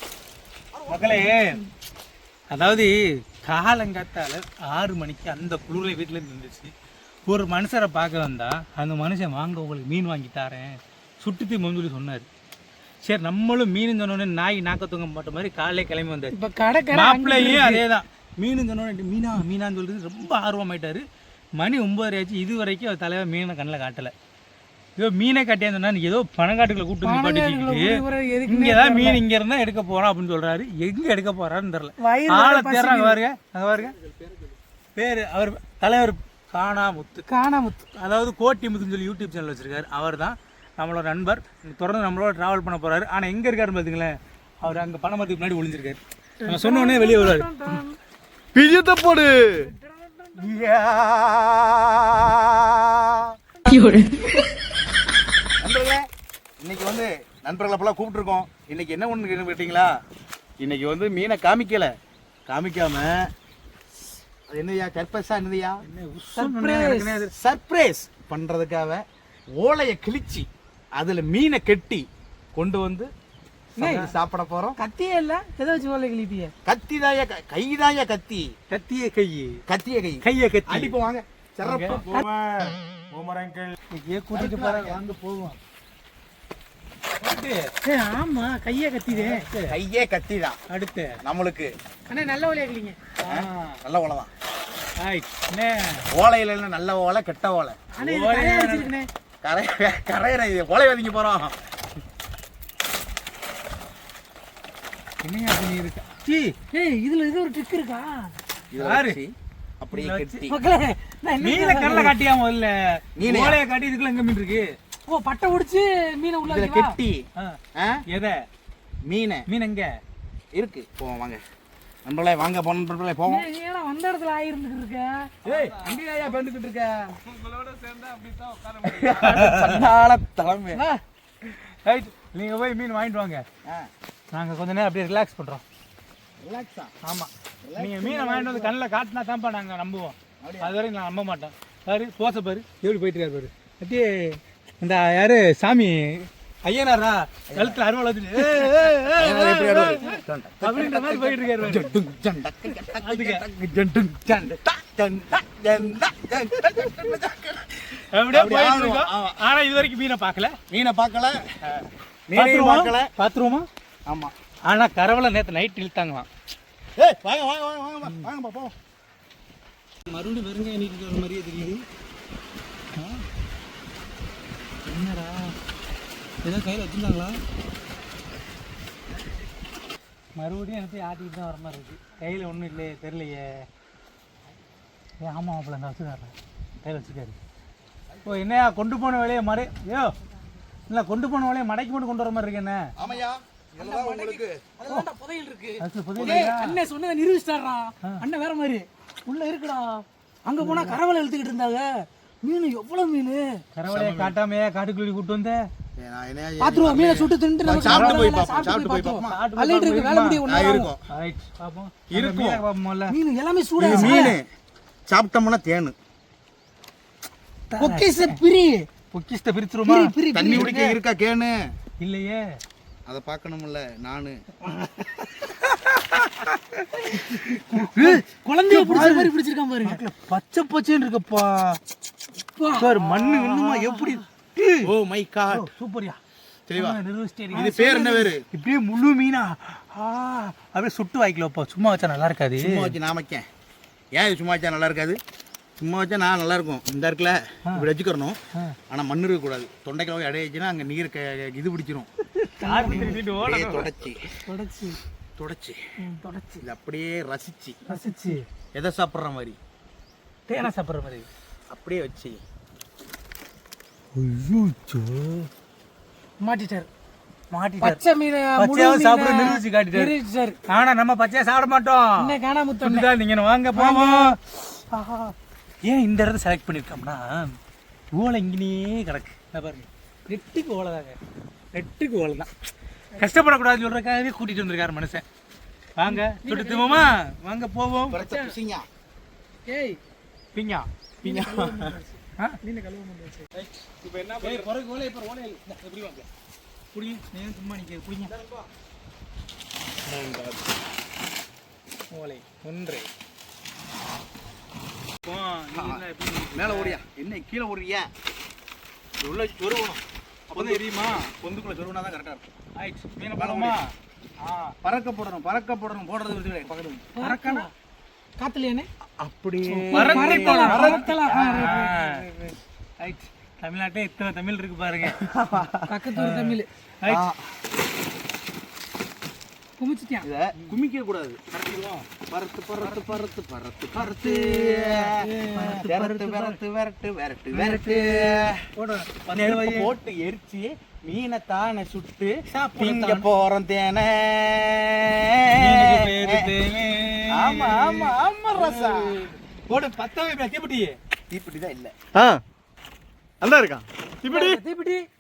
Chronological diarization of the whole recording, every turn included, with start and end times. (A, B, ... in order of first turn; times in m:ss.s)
0:00.7-0:01.2 A
0:00.9-0:01.6 B
0:02.5-0:06.7 B
0:07.3-0:12.3 B
0:13.0-0:16.4 B
0:16.3-0:17.8 C
0:16.9-0:21.0 B
0:21.6-0:24.1 B
0:25.0-0:33.9 B
0:27.0-0:29.2 C
0:32.0-0:33.2 C
0:34.0-0:34.5 A
0:35.0-0:37.3 B
0:37.3-0:37.8 C
0:37.9-0:47.7 B
0:46.4-0:48.0 C
0:48.5-0:49.7 A
0:49.5-0:50.6 C
0:50.4-0:53.4 A
0:53.6-0:54.4 C
0:55.6-0:56.0 A
0:56.6-0:59.9 A
1:00.6-1:01.9 A
1:02.5-1:03.3 A
1:04.5-1:05.8 A
1:05.8-1:07.2 B
1:06.3-1:07.3 C
1:07.3-1:09.0 A
1:09.6-1:13.1 A
1:13.8-1:14.1 C
1:13.8-1:14.8 A
1:14.8-1:16.5 C
1:16.6-1:18.5 A
1:18.7-1:19.6 B
1:19.7-1:23.7 A
1:20.2-1:20.9 B
1:21.6-1:22.0 B
1:23.9-1:25.6 B
1:24.3-1:25.0 A
1:27.2-1:27.7 B
1:27.8-1:29.4 C
1:29.1-1:29.8 B
1:29.6-1:30.6 A
1:30.7-1:31.2 B
1:31.2-1:31.7 A
1:32.1-1:33.0 C
1:33.2-1:33.8 B
1:33.3-1:34.3 A
1:35.0-1:36.0 B
1:36.1-1:37.8 A
1:37.9-1:39.1 C
1:38.0-1:38.9 B
1:39.4-1:41.5 A
1:45.2-1:46.5 B
1:46.7-1:48.4 C
1:48.7-1:50.6 A
1:48.7-1:49.2 B
1:49.9-1:50.4 B
1:50.4-1:52.2 C
1:51.4-1:54.7 B
1:53.2-1:53.6 A
1:55.1-1:57.0 C
1:56.4-1:58.0 A
1:57.4-1:58.4 B
1:59.0-1:59.4 A
1:59.5-1:59.9 B
2:00.5-2:01.4 A
2:02.0-2:03.5 A
2:03.2-2:05.3 C
2:05.4-2:10.8 A
2:08.9-2:09.8 B
2:10.7-2:11.0 C
2:11.4-2:13.4 B
2:14.3-2:15.6 B
2:16.4-2:16.9 A
2:17.0-2:31.9 B
2:17.6-2:18.7 A
2:20.4-2:20.7 A
2:27.5-2:27.8 A
2:28.6-2:39.4 A
2:31.0-2:31.4 C
2:33.0-2:33.4 B
2:38.1-2:40.6 B
2:40.7-2:41.4 A
2:42.3-2:43.1 A
2:42.3-2:43.7 B
2:44.1-2:44.3 A
2:44.7-2:46.3 B
2:47.0-2:48.7 A
2:48.0-2:48.3 B
2:50.1-2:51.8 B
2:53.0-2:53.2 B
2:54.8-2:55.6 B
2:56.4-2:57.4 B
3:00.4-3:03.7 B
3:05.2-3:07.4 B
3:08.2-3:10.1 B
3:10.9-3:12.9 B
3:13.0-3:14.7 A
3:13.8-3:23.6 C
3:15.8-3:16.8 B
3:16.2-3:16.5 A
3:20.6-3:21.0 B
3:23.7-3:25.6 B
3:23.9-3:24.3 A
3:26.0-3:29.4 A
3:26.6-3:30.9 C
3:27.8-3:28.4 B
3:29.2-3:30.4 B
3:30.4-3:31.0 A
3:31.1-3:33.2 B
3:32.1-3:32.6 A
3:33.1-3:34.4 C
3:33.8-3:34.5 A
3:33.8-3:34.3 B
3:35.1-3:36.0 A
3:37.7-3:38.4 B
3:37.7-3:38.9 C
3:39.1-3:41.0 B
3:39.8-3:40.7 C
3:40.3-3:41.7 A
3:42.0-3:42.6 B
3:43.0-3:44.4 A
3:44.6-3:51.8 B
3:47.1-3:50.0 C
3:52.6-3:53.0 C
3:52.7-3:54.9 B
3:53.0-3:54.2 A
3:54.8-3:55.7 A
3:55.5-3:56.2 B
3:56.7-3:57.0 A
3:56.7-4:02.9 B
3:57.5-3:58.4 A
3:58.0-3:58.3 C
4:02.6-4:03.4 A
4:04.1-4:05.2 A
4:05.8-4:12.1 A
4:12.4-4:13.9 B
4:12.6-4:13.2 C
4:12.8-4:14.2 A
4:14.4-4:15.0 C
4:15.4-4:15.8 A
4:16.0-4:16.6 C
4:16.6-4:17.8 A
4:17.8-4:18.4 C
4:18.7-4:19.6 A
4:20.5-4:20.8 C
4:20.6-4:21.2 B
4:21.7-4:22.4 A
4:24.1-4:25.5 B
4:26.4-4:26.9 C
4:27.5-4:28.0 B
4:27.8-4:30.6 C
4:28.6-4:30.1 B
4:30.7-4:35.3 B
4:32.2-4:33.1 C
4:33.7-4:34.4 C
4:35.8-4:37.6 B
4:38.1-4:41.2 B
4:41.7-4:42.5 B
4:43.2-4:45.2 B
4:46.0-4:48.2 B
4:46.1-4:47.1 C
4:48.1-4:48.9 A
4:48.2-4:48.6 C
4:49.6-4:50.0 C
4:50.5-4:50.9 B
4:51.2-4:53.5 C
4:51.2-4:52.0 A
4:53.9-4:54.7 A
4:54.4-4:56.2 B
4:56.9-4:58.4 B
4:58.3-4:58.6 A
5:00.0-5:00.6 A
5:02.1-5:03.1 B
5:05.2-5:07.0 B
5:05.7-5:06.0 A
5:06.5-5:08.1 A
5:09.2-5:12.4 A
5:10.5-5:11.3 B
5:12.8-5:13.9 B
5:13.4-5:13.8 A
5:14.4-5:14.7 B
5:14.8-5:17.0 A
5:17.1-5:17.7 C
5:17.2-5:17.7 B
5:18.4-5:18.9 C
5:19.2-5:22.4 A
5:19.7-5:22.0 C
5:19.9-5:22.2 B
5:23.0-5:27.2 B
5:25.0-5:25.8 A
5:25.8-5:26.7 C
5:27.1-5:27.5 A
5:29.8-5:30.3 C
5:30.2-5:35.2 A
5:32.8-5:33.2 B
5:34.0-5:36.6 B
5:35.4-5:36.2 C
5:35.8-5:38.7 A
5:37.5-5:39.9 B
5:39.3-5:46.5 A
5:42.5-5:43.2 B
5:45.6-5:51.0 B
5:47.3-5:49.2 A
5:51.3-5:52.4 A
5:53.4-5:53.8 A
5:54.2-5:54.6 B
5:54.3-5:55.1 C